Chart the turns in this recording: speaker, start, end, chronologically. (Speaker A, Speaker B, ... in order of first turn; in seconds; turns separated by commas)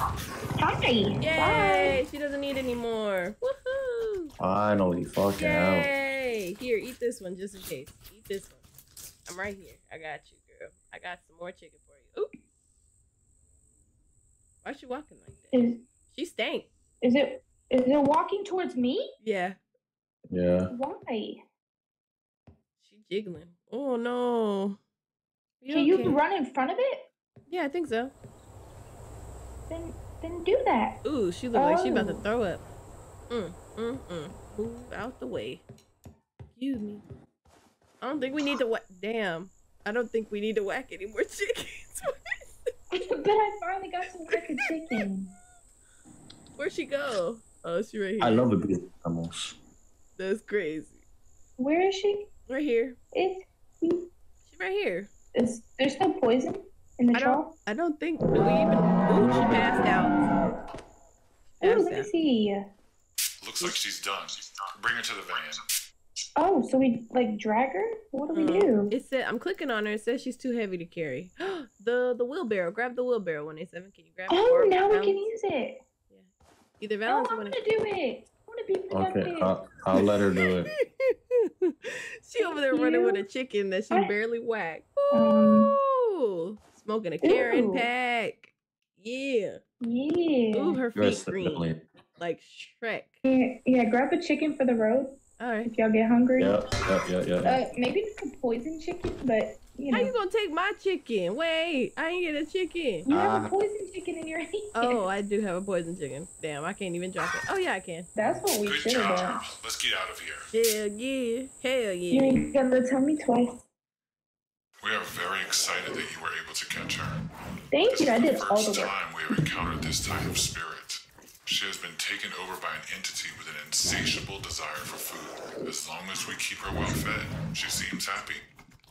Speaker A: 0.6-2.0, Speaker B: 1.2-4.3, Speaker C: 4.4-5.9, Speaker B: 5.4-8.6, Speaker B: 9.2-12.3, Speaker B: 14.6-16.7, Speaker A: 15.5-15.8, Speaker A: 17.0-19.1, Speaker B: 19.2-19.6, Speaker C: 20.3-20.7, Speaker A: 20.7-21.4, Speaker B: 22.8-24.8, Speaker B: 25.6-26.2, Speaker A: 25.7-27.0, Speaker B: 27.5-28.1, Speaker A: 29.7-31.0, Speaker B: 31.0-32.6, Speaker A: 31.5-32.2, Speaker B: 33.3-35.6, Speaker B: 36.5-37.0, Speaker B: 38.0-42.7, Speaker A: 42.9-45.3, Speaker B: 46.6-48.4, Speaker C: 48.2-49.5, Speaker B: 50.2-51.0, Speaker A: 51.6-52.2, Speaker B: 52.5-53.0, Speaker A: 53.1-54.1, Speaker B: 54.5-55.1, Speaker A: 55.3-57.5, Speaker B: 57.1-60.5, Speaker C: 59.1-60.0, Speaker B: 61.6-62.1, Speaker A: 61.6-62.6, Speaker D: 63.4-65.6, Speaker A: 66.3-68.9, Speaker B: 68.3-75.3, Speaker A: 74.3-75.8, Speaker B: 76.8-77.6, Speaker A: 77.1-79.5, Speaker C: 78.9-80.7, Speaker B: 81.0-89.6, Speaker A: 82.4-83.2, Speaker A: 85.1-85.7, Speaker A: 87.2-87.9, Speaker A: 89.8-90.8, Speaker B: 90.5-93.1, Speaker C: 90.9-91.8, Speaker A: 93.2-96.5, Speaker B: 95.4-95.7, Speaker C: 96.4-97.6, Speaker A: 97.4-100.1, Speaker B: 99.9-103.1, Speaker A: 103.0-105.0, Speaker C: 103.1-103.5, Speaker B: 104.7-108.1, Speaker A: 108.2-109.4, Speaker D: 108.6-110.5, Speaker B: 110.5-112.4, Speaker A: 112.1-113.6, Speaker D: 114.8-117.3, Speaker A: 117.7-118.9, Speaker D: 117.9-128.4